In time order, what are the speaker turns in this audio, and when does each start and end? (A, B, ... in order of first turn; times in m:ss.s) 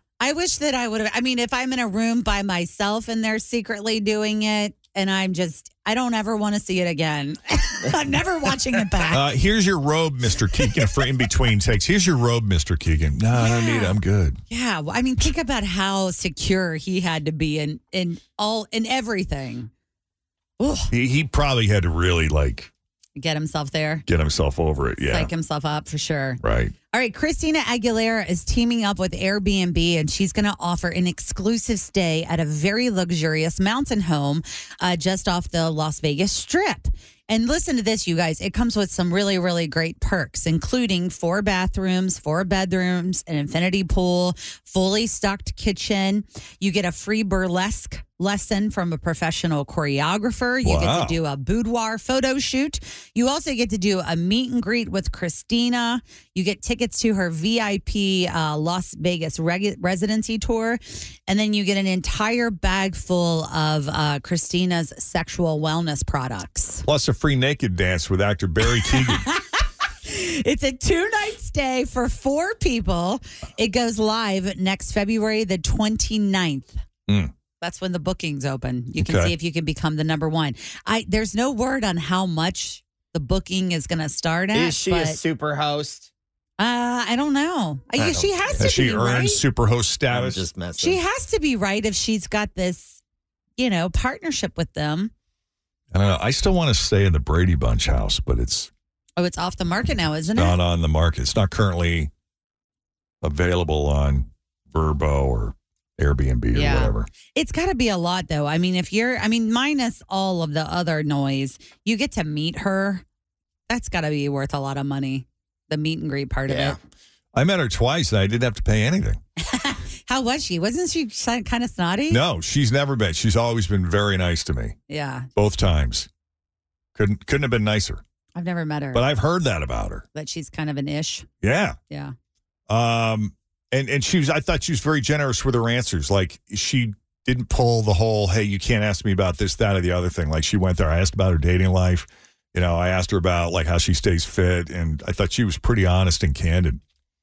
0:00.2-0:09.2 A
0:09.1-0:14.4 B
0:13.3-0:14.0 A
0:14.5-0:19.7 A
0:20.6-0:20.9 A
0:20.9-0:22.7 B
0:23.2-0:24.0 A
0:24.1-0:25.3 B
0:25.1-0:26.4 A
0:26.4-0:26.7 B
0:26.9-1:06.8 A
0:50.6-0:51.2 B
1:06.8-1:09.3 B
1:08.8-1:16.8 A
1:17.1-1:17.3 B
1:17.6-1:25.2 A
1:19.0-1:19.3 B
1:24.5-1:26.1 C
1:26.6-1:29.4 A
1:28.0-1:28.6 C
1:28.6-1:30.5 B
1:30.1-1:31.0 C
1:30.8-1:33.0 A
1:33.6-1:35.1 A
1:35.9-1:38.7 B
1:39.2-1:40.6 A
1:40.3-1:42.1 B
1:43.2-1:47.1 B
1:46.5-1:53.0 A
1:53.7-1:56.8 A
1:56.5-1:56.8 C
1:57.3-1:59.2 B
1:59.4-2:02.2 A
2:02.1-2:04.8 B
2:04.9-2:05.3 A
2:05.4-2:06.1 B
2:07.0-2:08.0 B
2:08.4-2:09.0 A
2:08.9-2:10.0 B
2:10.1-2:11.3 A
2:11.4-2:11.8 B
2:12.7-2:26.8 B